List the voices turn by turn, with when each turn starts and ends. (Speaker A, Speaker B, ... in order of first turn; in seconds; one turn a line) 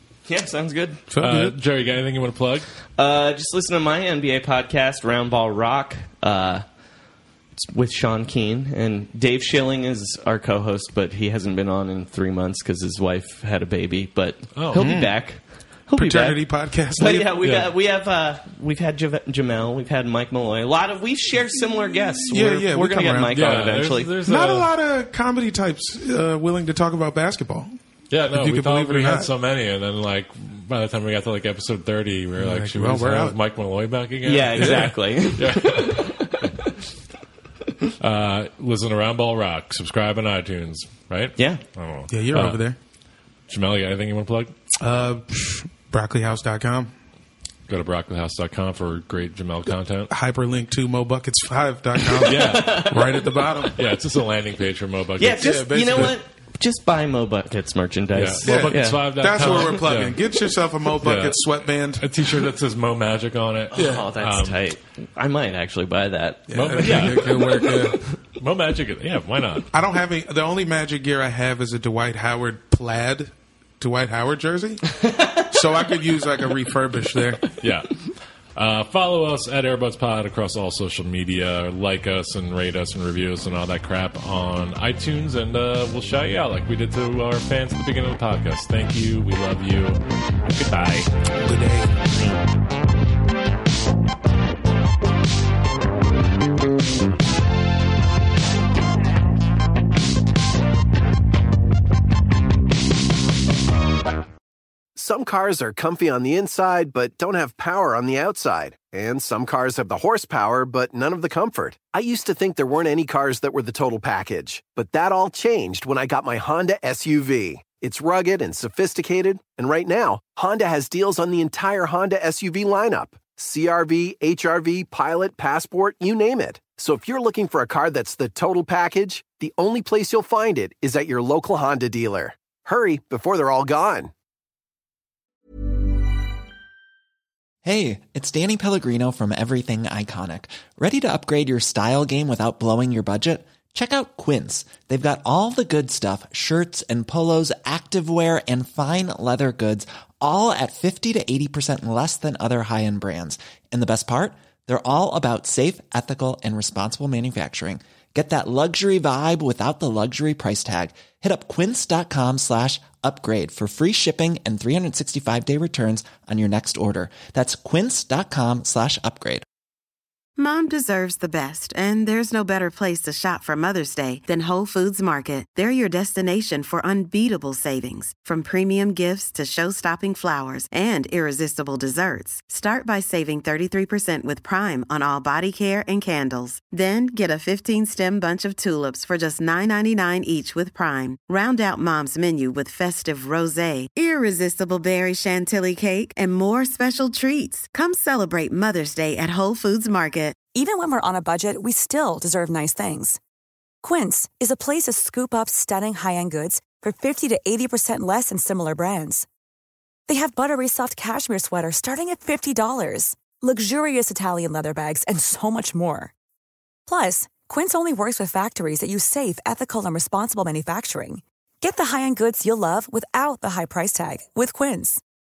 Speaker A: 0.3-1.0
Speaker B: 1.1-1.6
Speaker C: 1.2-2.7
Speaker A: 3.0-6.6
Speaker A: 7.5-24.1
Speaker C: 14.6-15.0
Speaker B: 14.7-15.1
Speaker B: 15.9-17.4
Speaker C: 17.4-17.7
Speaker B: 22.3-23.4
Speaker C: 23.3-24.7
Speaker B: 24.2-27.7
Speaker C: 28.1-36.2
Speaker B: 28.3-29.3
Speaker B: 32.4-33.4
Speaker A: 34.2-36.7
Speaker C: 38.0-42.6
Speaker A: 41.4-41.6
Speaker B: 42.1-42.8
Speaker C: 43.5-44.5
Speaker B: 44.8-46.9
Speaker C: 47.7-50.1
Speaker B: 50.1-53.8
Speaker A: 52.2-53.5
Speaker C: 52.2-53.2
Speaker C: 53.7-56.1
Speaker A: 55.2-59.6
Speaker B: 55.3-56.1
Speaker C: 58.1-60.2
Speaker B: 58.4-62.1
Speaker C: 61.0-61.4
Speaker C: 62.0-64.6
Speaker A: 63.7-67.8
Speaker B: 63.8-64.0
Speaker B: 66.5-68.0
Speaker C: 66.5-69.7
Speaker B: 69.7-77.5
Speaker A: 75.0-75.4
Speaker C: 77.6-90.0
Speaker C: 90.5-91.1
Speaker B: 91.4-91.9
Speaker D: 105.0-134.1
Speaker E: 137.6-169.4
Speaker F: 170.4-200.3
Speaker G: 200.5-203.2
Speaker G: 203.8-209.3
Speaker G: 210.1-216.1
Speaker G: 216.9-225.0